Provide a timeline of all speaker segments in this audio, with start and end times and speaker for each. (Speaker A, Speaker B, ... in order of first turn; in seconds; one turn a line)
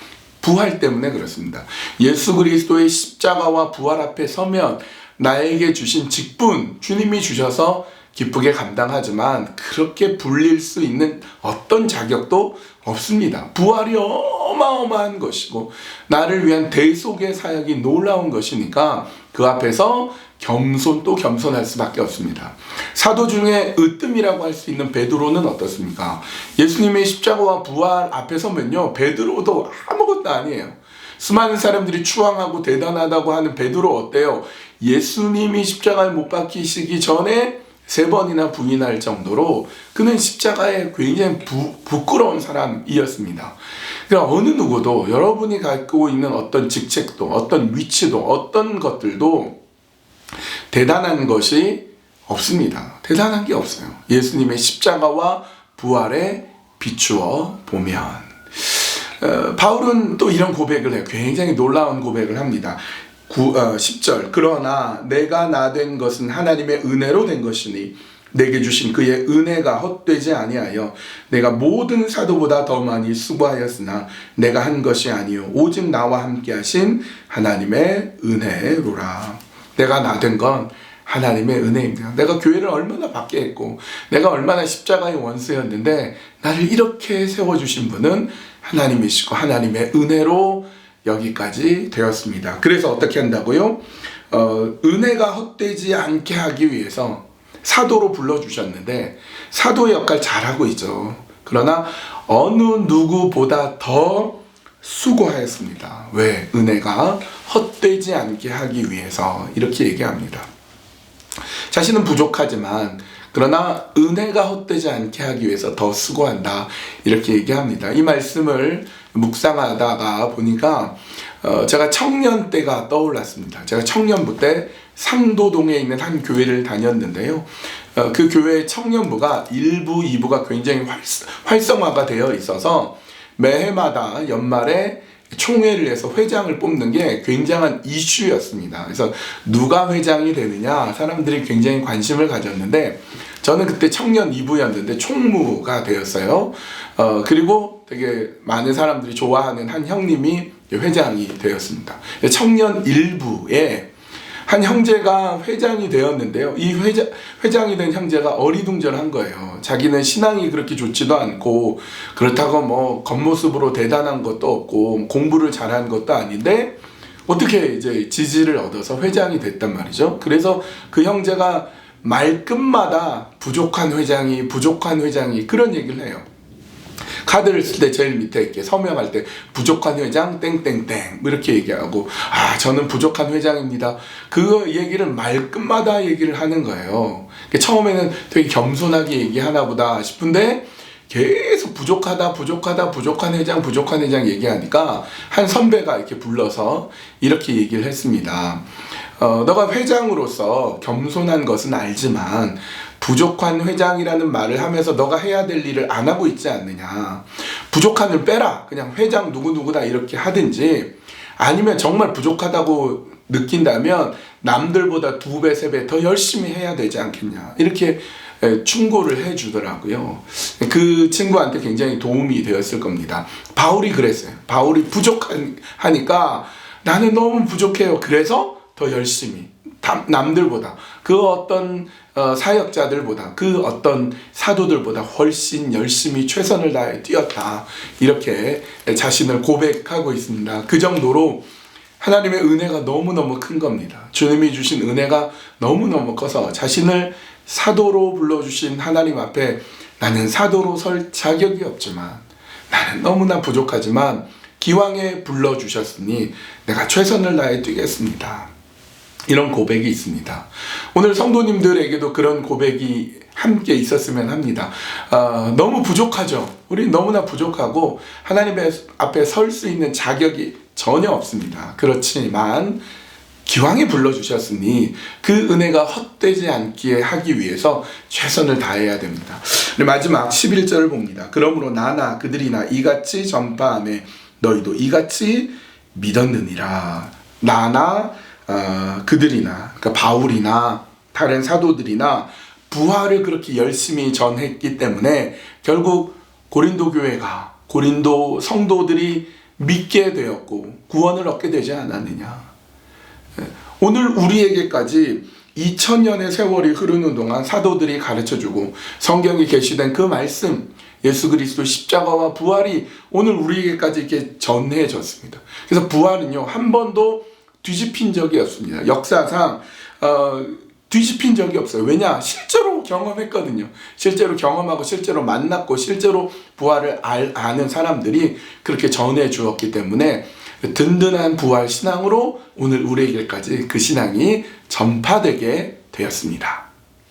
Speaker A: 0.4-49.5
Speaker A: 50.7-110.5
Speaker A: 111.7-153.9
Speaker A: 154.4-166.7
Speaker A: 167.3-176.2
Speaker A: 177.2-198.6
Speaker A: 199.2-241.4
Speaker A: 242.0-258.5
Speaker A: 259.3-272.8
Speaker A: 273.4-302.5
Speaker A: 303.4-336.6